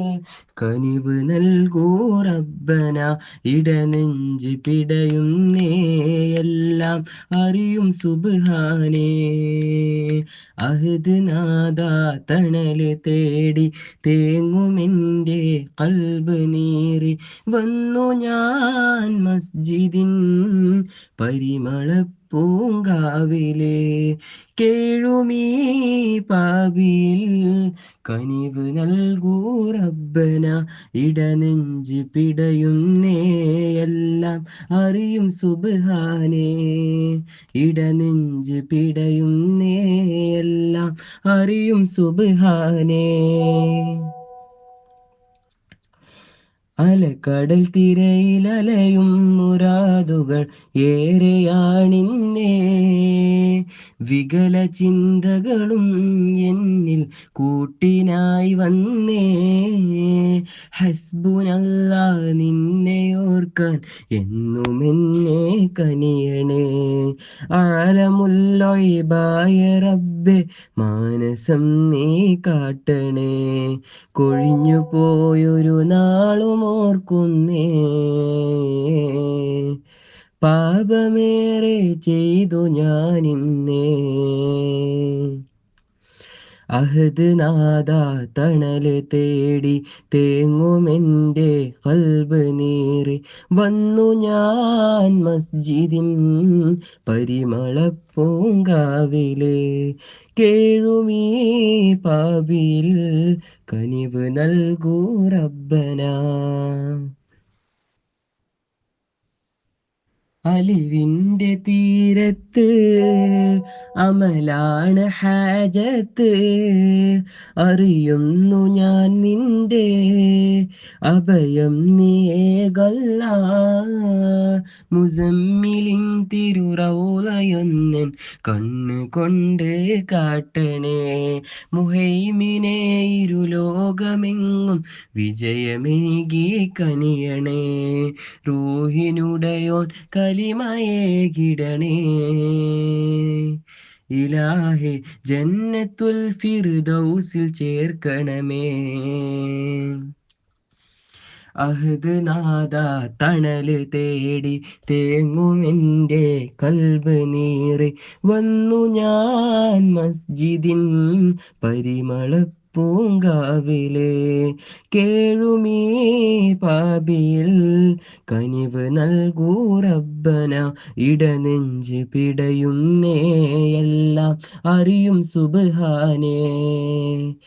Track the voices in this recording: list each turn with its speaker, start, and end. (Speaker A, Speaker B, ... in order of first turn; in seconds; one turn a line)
Speaker A: 0.6-44.0
Speaker A: 46.9-55.9
Speaker A: 56.4-79.7
Speaker A: 80.4-85.3
Speaker A: 86.8-99.7
Speaker A: 100.4-103.0
Speaker A: 103.7-107.0
Speaker A: 110.5-143.5
Speaker A: 144.2-150.0
Speaker A: 151.6-167.6
Speaker A: 168.3-177.2